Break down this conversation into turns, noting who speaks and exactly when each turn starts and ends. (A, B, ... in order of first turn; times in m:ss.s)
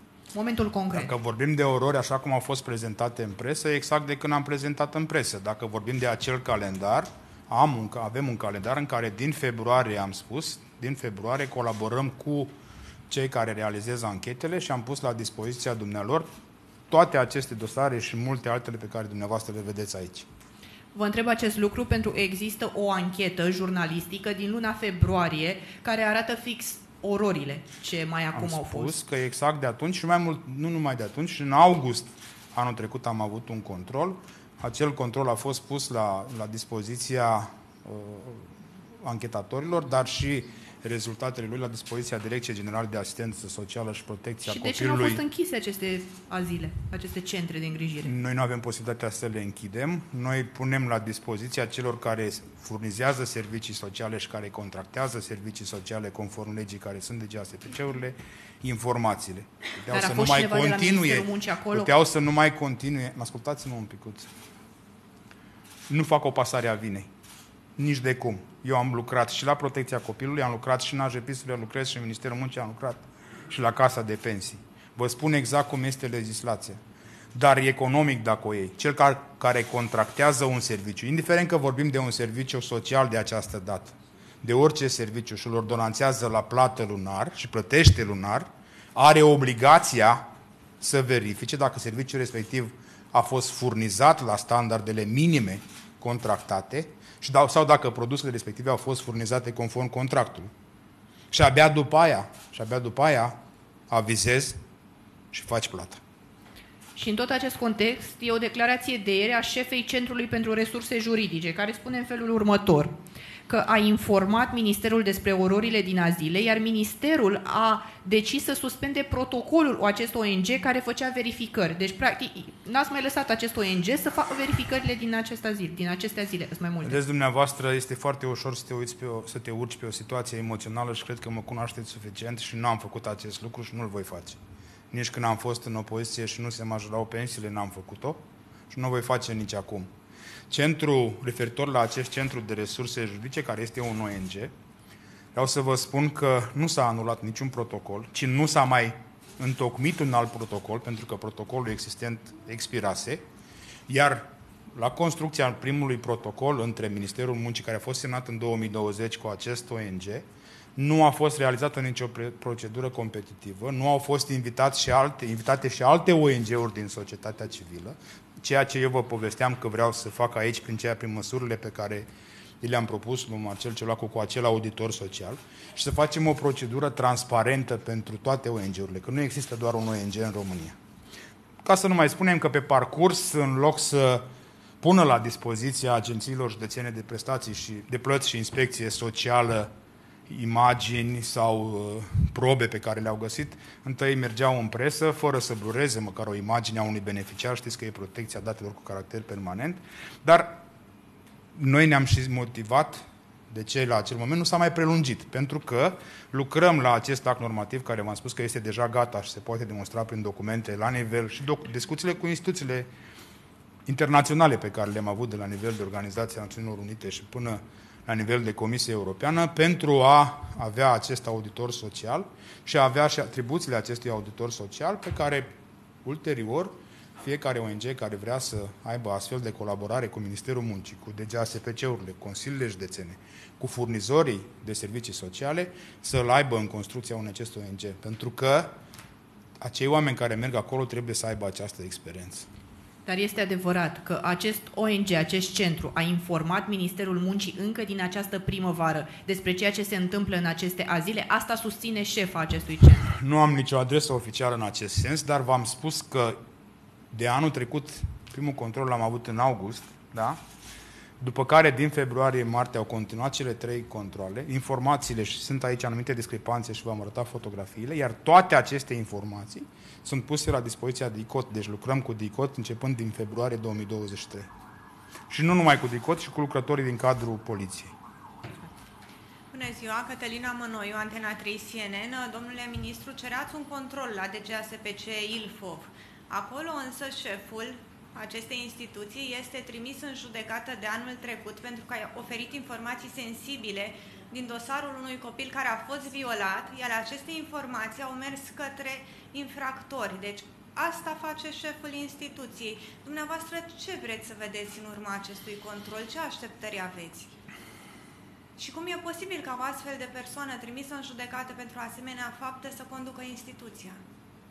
0:00.3-0:01.1 A
0:00.9-0:12.5 B
0:13.1-0:16.3 B
0:16.9-0:20.3 B
0:20.9-0:29.0 A
0:28.3-0:45.2 B
0:44.4-0:48.1 A
0:48.0-1:04.3 B
0:59.9-1:01.9 A
1:05.9-1:07.1 B
1:07.8-1:16.8 B
1:17.3-1:30.3 B
1:30.8-1:40.5 B
1:41.3-1:43.4 B
1:43.9-1:44.6 B
1:45.3-1:46.0 B
1:46.9-2:07.0 A
2:06.8-2:14.4 B
2:14.9-2:19.9 B
2:20.5-2:24.5 B
2:25.3-2:33.2 B
2:33.9-2:40.2 B
2:40.8-2:52.1 B
2:52.6-3:00.8 B
3:01.6-3:04.3 B
3:04.8-3:09.7 B
3:10.3-3:20.6 B
3:21.5-3:32.9 B
3:33.9-3:45.5 B
3:46.0-3:58.7 B
3:59.6-4:02.5 B
4:03.0-4:13.1 A
4:13.1-4:16.4 B
4:17.1-4:20.4 B
4:21.2-4:34.5 B
4:35.3-4:37.9 B
4:39.5-5:07.3 C
5:08.6-5:14.0 C